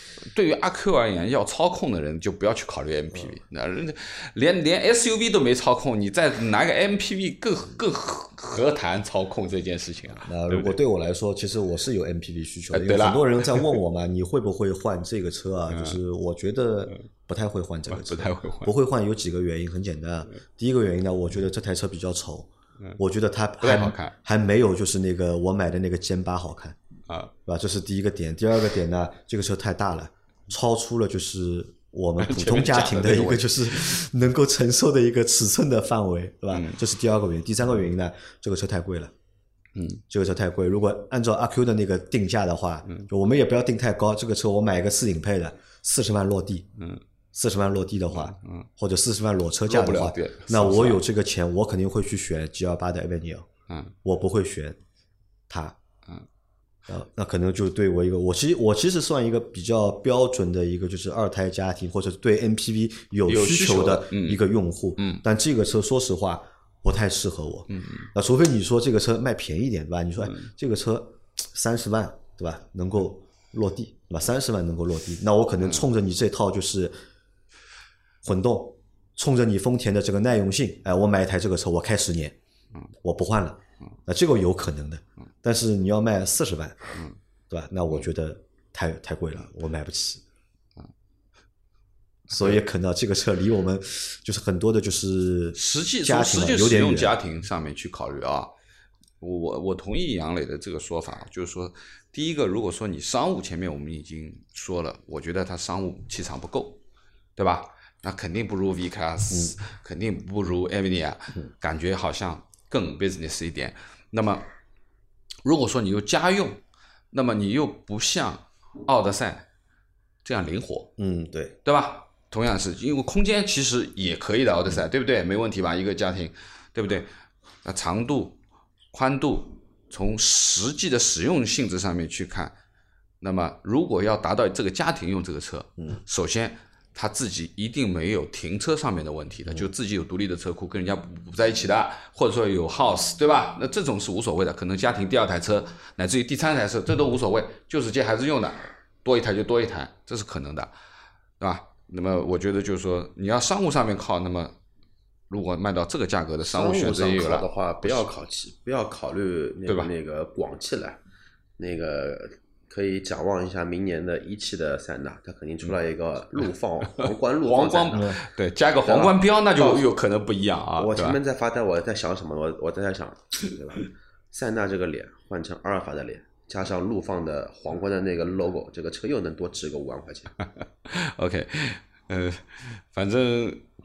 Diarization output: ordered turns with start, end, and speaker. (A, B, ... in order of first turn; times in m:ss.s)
0:00.3-0:10.8 A
0:10.2-0:26.8 B
0:12.7-0:13.8 A
0:15.7-0:16.0 A
0:17.9-0:18.7 A
0:23.6-0:24.1 A
0:27.4-0:39.1 B
0:32.2-0:34.0 A
0:36.5-0:36.8 A
0:39.7-0:40.0 A
0:40.1-0:46.7 B
0:47.3-0:53.5 B
0:48.1-0:48.7 A
0:49.7-0:51.0 A
0:53.7-0:53.9 A
0:54.0-0:54.8 B
0:55.5-0:55.8 B
0:56.9-1:16.9 B
1:03.2-1:04.4 A
1:05.0-1:05.2 A
1:07.7-1:08.1 A
1:18.2-1:22.4 B
1:23.0-1:26.8 B
1:27.5-1:30.2 B
1:32.3-1:37.1 B
1:35.5-1:38.5 A
1:39.2-1:46.8 A
1:47.4-1:54.5 A
1:55.4-1:56.6 A
1:57.1-1:59.5 A
2:00.2-2:00.9 A
2:01.0-2:01.6 B
2:01.6-2:07.1 A
2:07.6-2:08.4 A
2:08.9-2:12.5 A
2:13.2-2:30.7 A
2:31.4-2:34.5 A
2:35.3-2:38.1 A
2:36.5-2:41.0 C
2:41.6-2:48.0 C
2:47.0-2:51.2 A
2:47.9-2:48.2 B
2:48.8-2:49.8 C
2:50.8-3:00.3 C
3:00.8-3:03.6 A